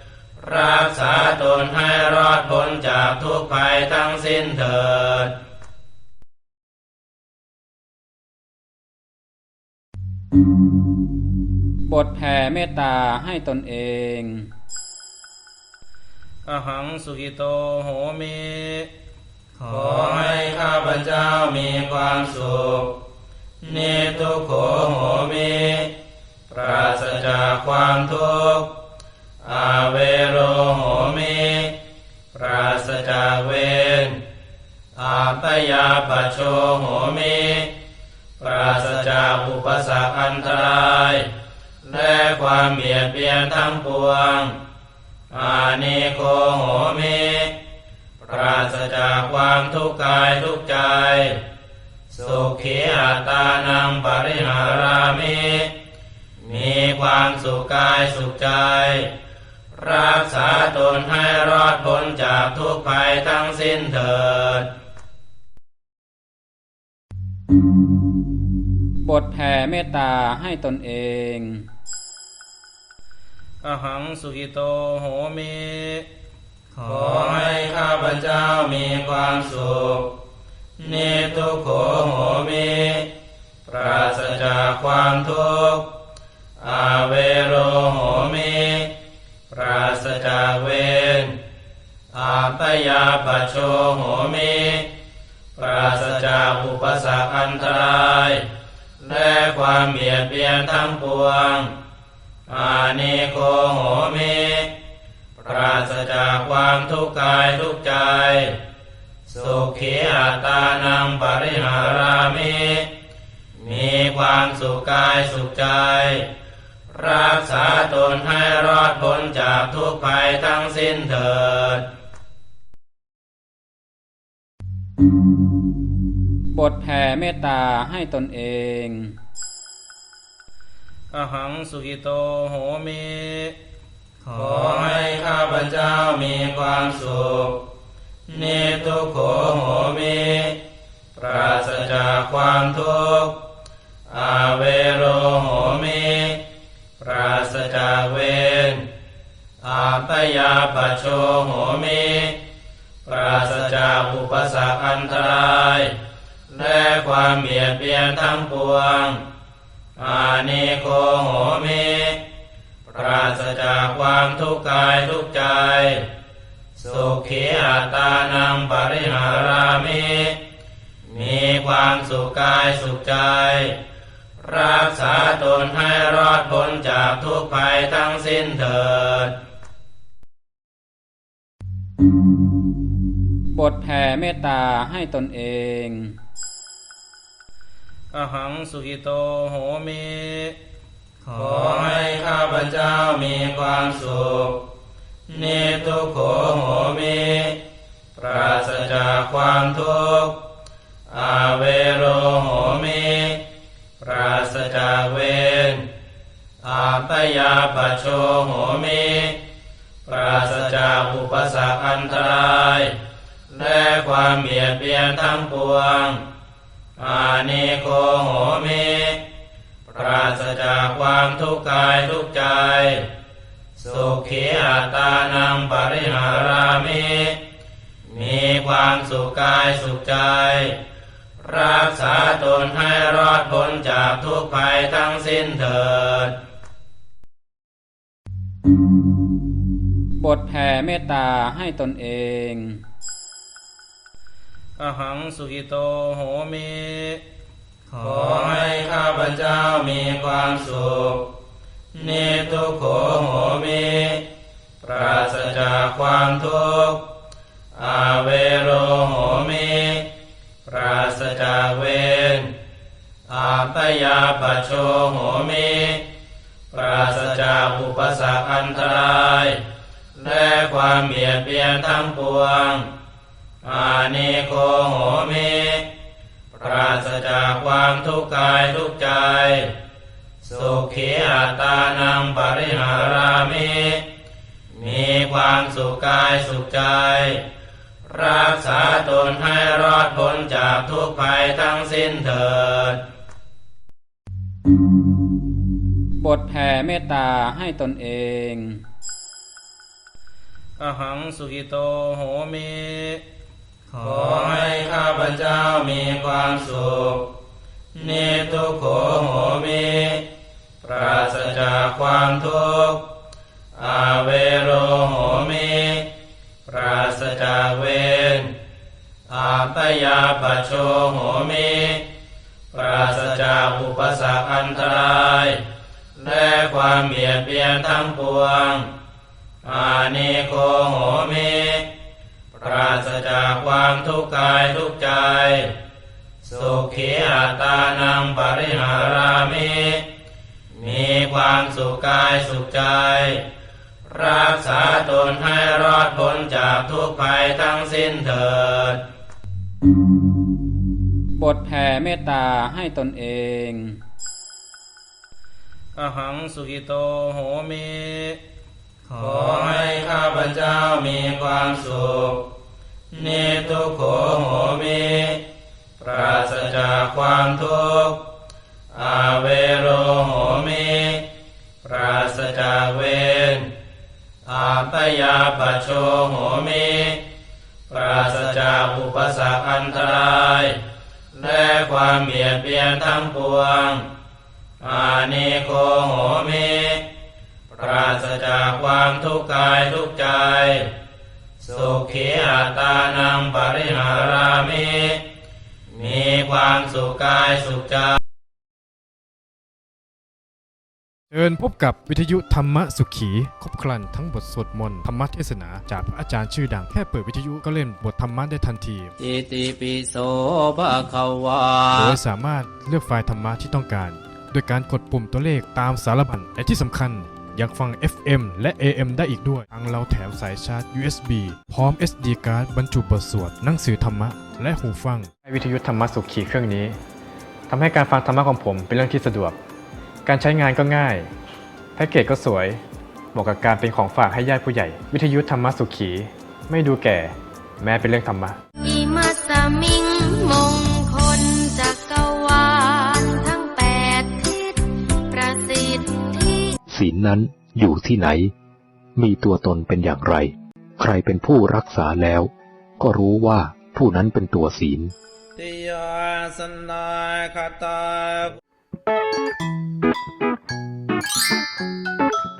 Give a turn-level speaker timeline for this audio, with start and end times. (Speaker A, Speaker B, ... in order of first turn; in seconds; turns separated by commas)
Speaker A: 0.4-5.3, Speaker B: 11.8-14.5, Speaker A: 16.4-18.9, Speaker A: 19.6-23.0, Speaker A: 23.6-25.9, Speaker A: 26.5-28.7, Speaker A: 29.4-31.8, Speaker A: 32.3-34.2, Speaker A: 35.0-37.7, Speaker A: 38.4-41.3, Speaker A: 41.8-44.6, Speaker A: 45.3-47.6, Speaker A: 48.2-51.4, Speaker A: 52.1-55.7, Speaker A: 56.4-59.1, Speaker A: 59.7-64.7, Speaker B: 69.0-71.7, Speaker A: 73.6-76.0, Speaker A: 76.8-80.2, Speaker A: 80.8-83.1, Speaker A: 83.7-85.9, Speaker A: 86.6-88.9, Speaker A: 89.5-91.4, Speaker A: 92.1-94.9, Speaker A: 95.5-98.5, Speaker A: 99.0-101.7, Speaker A: 102.5-104.8, Speaker A: 105.4-108.6, Speaker A: 109.3-112.9, Speaker A: 113.5-116.3, Speaker A: 116.9-121.9, Speaker B: 126.5-129.2, Speaker A: 131.1-133.6, Speaker A: 134.2-137.7, Speaker A: 138.3-140.6, Speaker A: 141.1-143.4, Speaker A: 144.1-146.4, Speaker A: 147.0-148.9, Speaker A: 149.6-152.4, Speaker A: 153.0-156.0, Speaker A: 156.5-159.2, Speaker A: 159.9-162.2, Speaker A: 162.9-166.1, Speaker A: 166.8-170.4, Speaker A: 171.0-173.8, Speaker A: 174.4-179.4, Speaker B: 183.5-186.2, Speaker A: 188.1-190.6, Speaker A: 191.2-194.7, Speaker A: 195.3-197.6, Speaker A: 198.1-200.4, Speaker A: 201.1-203.4, Speaker A: 204.0-205.9, Speaker A: 206.6-209.4, Speaker A: 210.1-213.0, Speaker A: 213.5-216.2, Speaker A: 217.0-219.2, Speaker A: 219.9-223.1, Speaker A: 223.8-227.4, Speaker A: 228.1-230.8, Speaker A: 231.4-236.3, Speaker B: 240.2-242.8, Speaker A: 244.8-247.2, Speaker A: 247.9-251.3, Speaker A: 251.9-254.3, Speaker A: 254.8-257.1, Speaker A: 257.7-260.1, Speaker A: 260.6-262.5, Speaker A: 263.3-266.1, Speaker A: 266.7-269.6, Speaker A: 270.1-272.9, Speaker A: 273.6-275.9, Speaker A: 276.5-279.7, Speaker A: 280.4-284.1, Speaker A: 284.7-287.4, Speaker A: 288.1-293.0, Speaker B: 296.2-298.8, Speaker A: 300.8-303.2, Speaker A: 303.9-307.3, Speaker A: 307.9-310.3, Speaker A: 310.8-313.1, Speaker A: 313.8-316.1, Speaker A: 316.6-318.5, Speaker A: 319.3-322.1, Speaker A: 322.7-325.6, Speaker A: 326.1-328.9, Speaker A: 329.6-331.9, Speaker A: 332.6-335.7, Speaker A: 336.4-340.1, Speaker A: 340.7-343.4, Speaker A: 344.1-349.0, Speaker B: 351.3-354.0, Speaker A: 355.9-358.4, Speaker A: 359.1-362.5, Speaker A: 363.1-365.4, Speaker A: 366.0-368.2, Speaker A: 368.9-371.3, Speaker A: 371.8-373.7, Speaker A: 374.4-377.2, Speaker A: 377.9-380.8, Speaker A: 381.3-384.1, Speaker A: 384.8-387.1, Speaker A: 387.7-390.9, Speaker A: 391.6-395.2, Speaker A: 395.9-398.2, Speaker C: 401.3-409.1, Speaker A: 409.2-412.2, Speaker C: 411.9-427.0, Speaker C: 427.7-429.6, Speaker C: 430.2-431.3, Speaker C: 431.9-432.8, Speaker C: 433.3-438.6, Speaker D: 438.8-446.7, Speaker E: 446.9-448.5, Speaker E: 449.2-455.1, Speaker A: 455.6-458.5